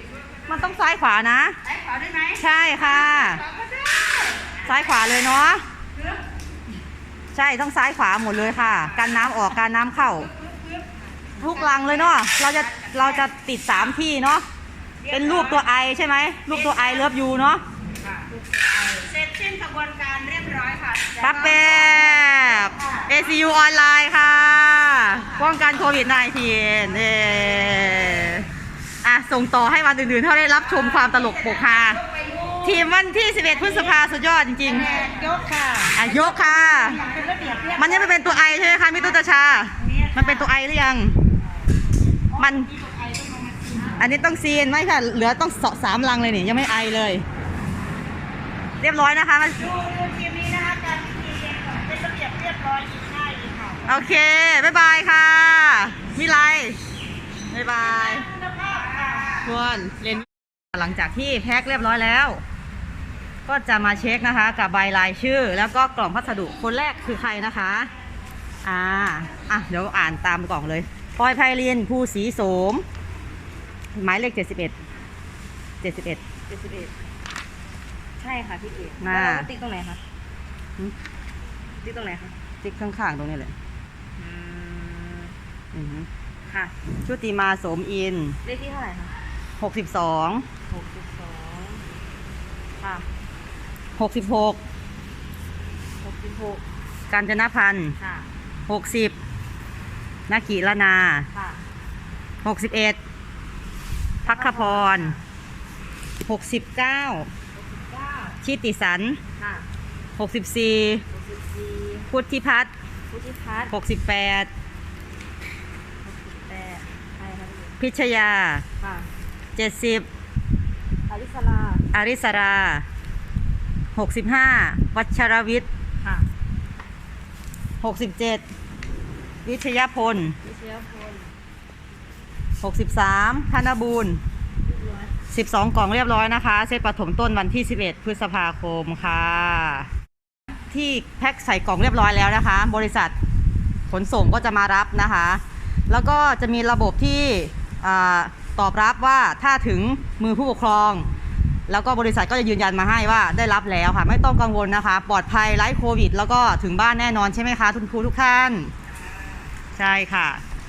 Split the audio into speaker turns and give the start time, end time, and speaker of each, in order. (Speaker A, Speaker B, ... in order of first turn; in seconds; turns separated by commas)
Speaker A: 0.5-1.6, Speaker B: 1.6-4.7, Speaker A: 2.4-3.4, Speaker A: 4.7-5.6, Speaker B: 6.0-6.2, Speaker A: 7.3-10.3, Speaker B: 8.9-9.2, Speaker B: 10.2-13.3, Speaker A: 11.4-14.5, Speaker B: 15.0-15.7, Speaker A: 15.1-17.6, Speaker B: 16.5-17.1, Speaker B: 18.0-23.1, Speaker A: 21.2-28.5, Speaker A: 29.0-32.0, Speaker B: 30.8-32.8, Speaker A: 32.6-35.0, Speaker B: 33.5-34.0, Speaker B: 34.6-40.5, Speaker A: 35.9-37.0, Speaker A: 37.8-41.2, Speaker B: 42.3-44.1, Speaker A: 42.4-42.7, Speaker A: 44.0-47.2, Speaker A: 48.8-49.7, Speaker B: 49.6-53.9, Speaker A: 53.9-56.8, Speaker A: 57.5-58.3, Speaker B: 57.8-59.5, Speaker A: 59.4-62.4, Speaker A: 63.5-67.9, Speaker A: 68.6-72.8, Speaker A: 74.0-74.8, Speaker A: 75.8-76.2, Speaker C: 76.5-76.9, Speaker C: 78.2-80.0, Speaker A: 79.0-79.5, Speaker C: 81.8-82.3, Speaker A: 82.6-83.5, Speaker C: 84.2-85.3, Speaker A: 85.7-86.1, Speaker A: 87.0-88.4, Speaker C: 88.5-89.1, Speaker A: 89.6-90.5, Speaker C: 90.7-91.8, Speaker C: 92.8-93.0, Speaker A: 94.0-94.6, Speaker C: 96.0-96.6, Speaker A: 97.1-98.0, Speaker C: 98.0-98.2, Speaker A: 98.7-99.2, Speaker A: 100.3-101.3, Speaker C: 101.3-101.6, Speaker A: 102.4-103.0, Speaker C: 104.2-105.2, Speaker A: 104.3-105.2, Speaker A: 106.2-107.3, Speaker C: 107.5-108.4, Speaker A: 108.4-109.2, Speaker C: 109.4-109.7, Speaker A: 110.2-111.0, Speaker C: 111.1-112.1, Speaker A: 112.1-112.7, Speaker C: 113.1-113.7, Speaker A: 113.7-114.5, Speaker C: 116.0-117.8, Speaker A: 117.8-118.7, Speaker C: 118.8-119.1, Speaker A: 119.6-120.1, Speaker C: 121.1-121.9, Speaker A: 121.9-122.9, Speaker A: 124.0-125.7, Speaker A: 127.8-128.4, Speaker A: 129.4-130.4, Speaker C: 130.4-131.3, Speaker A: 132.6-134.2, Speaker C: 134.7-135.1, Speaker A: 135.3-139.9, Speaker A: 140.7-143.2, Speaker A: 143.9-151.1, Speaker A: 151.7-158.7, Speaker A: 159.8-160.4